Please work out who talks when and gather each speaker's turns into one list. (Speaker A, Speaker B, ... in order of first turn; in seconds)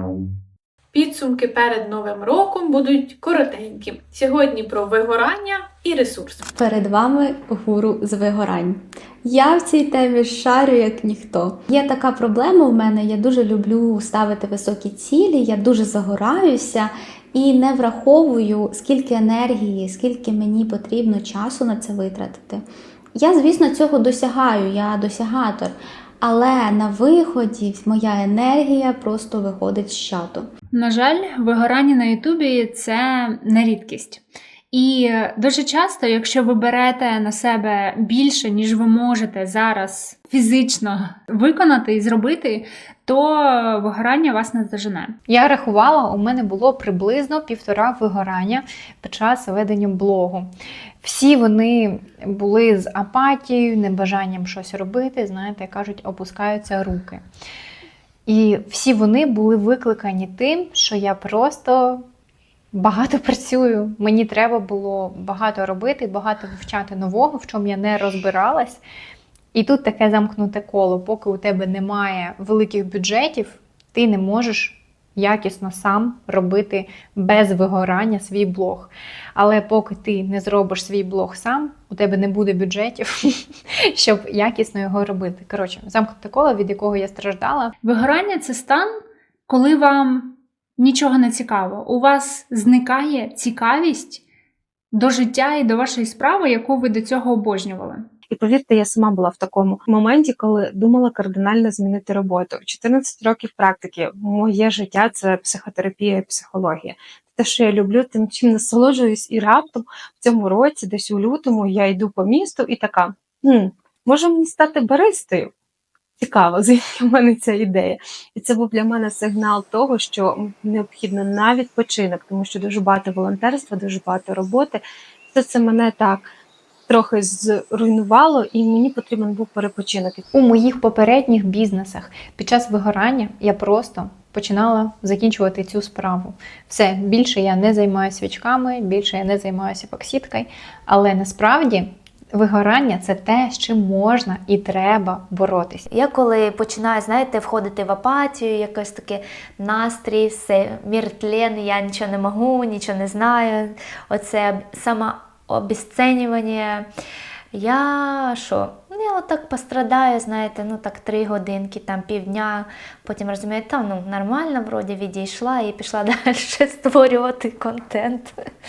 Speaker A: 0.9-6.5
Speaker B: 6.5-22.6, 23.2-30.5
Speaker C: 30.7-45.1, 87.8-88.9, 89.5-94.2, 94.9-98.0
Speaker D: 45.3-50.5, 51.0-57.2, 58.3-62.0, 62.7-68.8, 69.5-87.7, 130.3-145.9
Speaker E: 98.3-115.5, 116.2-126.3, 126.9-130.2
Speaker F: 145.9-156.9, 157.5-168.4